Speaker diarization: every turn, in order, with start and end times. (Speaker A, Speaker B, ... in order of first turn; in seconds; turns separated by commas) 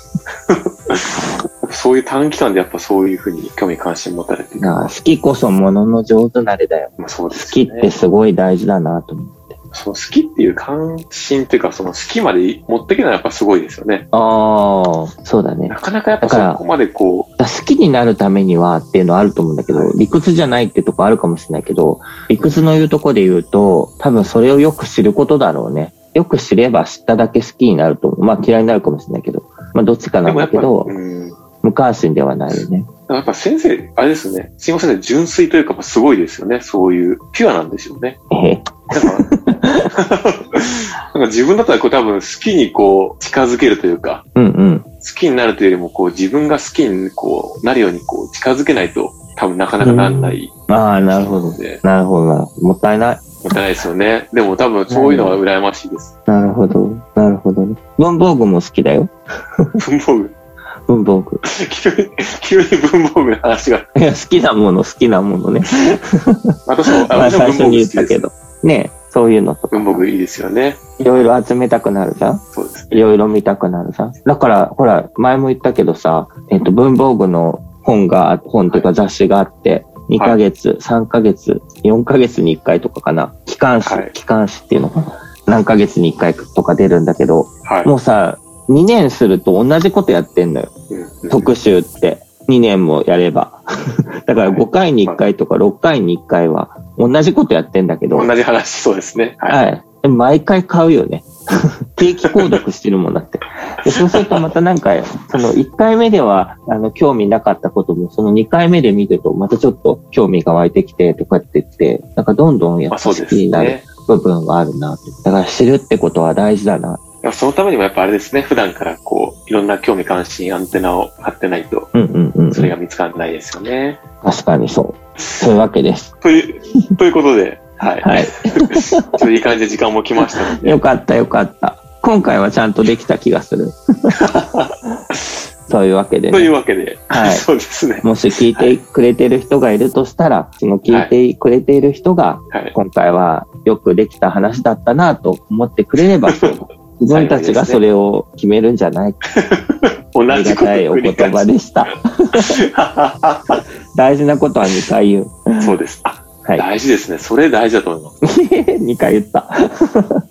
Speaker A: 0.5-4.9, Speaker B: 4.6-9.6, Speaker A: 7.0-8.0, Speaker A: 9.7-14.1, Speaker B: 14.1-16.6, Speaker A: 15.7-17.3, Speaker B: 17.4-30.9, Speaker A: 19.7-20.0, Speaker A: 30.2-31.4, Speaker B: 31.6-32.9, Speaker A: 32.5-38.2, Speaker B: 38.3-39.9, Speaker A: 38.9-39.3, Speaker A: 39.9-44.2, Speaker B: 44.4-44.9, Speaker A: 45.0-51.8, Speaker B: 49.8-53.2, Speaker A: 53.4-56.1, Speaker B: 54.9-55.4, Speaker B: 56.3-59.6, Speaker A: 59.8-60.3, Speaker B: 60.9-61.4, Speaker A: 61.4-63.9, Speaker B: 64.0-70.1, Speaker A: 66.7-68.2, Speaker A: 69.7-70.8, Speaker B: 71.0-90.7, Speaker A: 72.5-73.1, Speaker A: 78.7-78.9, Speaker A: 80.2-80.4, Speaker A: 83.8-84.1, Speaker A: 87.6-87.9, Speaker A: 90.9-91.5, Speaker B: 91.3-93.6, Speaker B: 94.2-98.3, Speaker A: 94.4-95.2, Speaker A: 98.1-99.6, Speaker B: 99.5-117.0, Speaker A: 103.9-104.5, Speaker A: 112.9-113.9, Speaker A: 117.2-121.9, Speaker B: 121.9-122.8, Speaker A: 122.5-124.0, Speaker B: 124.2-126.1, Speaker A: 125.2-125.5, Speaker A: 126.2-130.8, Speaker B: 128.0-129.2, Speaker B: 130.3-134.2, Speaker A: 134.2-135.4, Speaker B: 135.7-136.5, Speaker A: 136.3-138.8, Speaker B: 137.1-137.5, Speaker B: 138.0-149.2, Speaker A: 140.9-141.1, Speaker A: 147.1-147.8, Speaker A: 149.3-153.6, Speaker B: 150.3-152.6, Speaker B: 153.9-155.8, Speaker A: 155.6-158.2, Speaker B: 158.2-160.2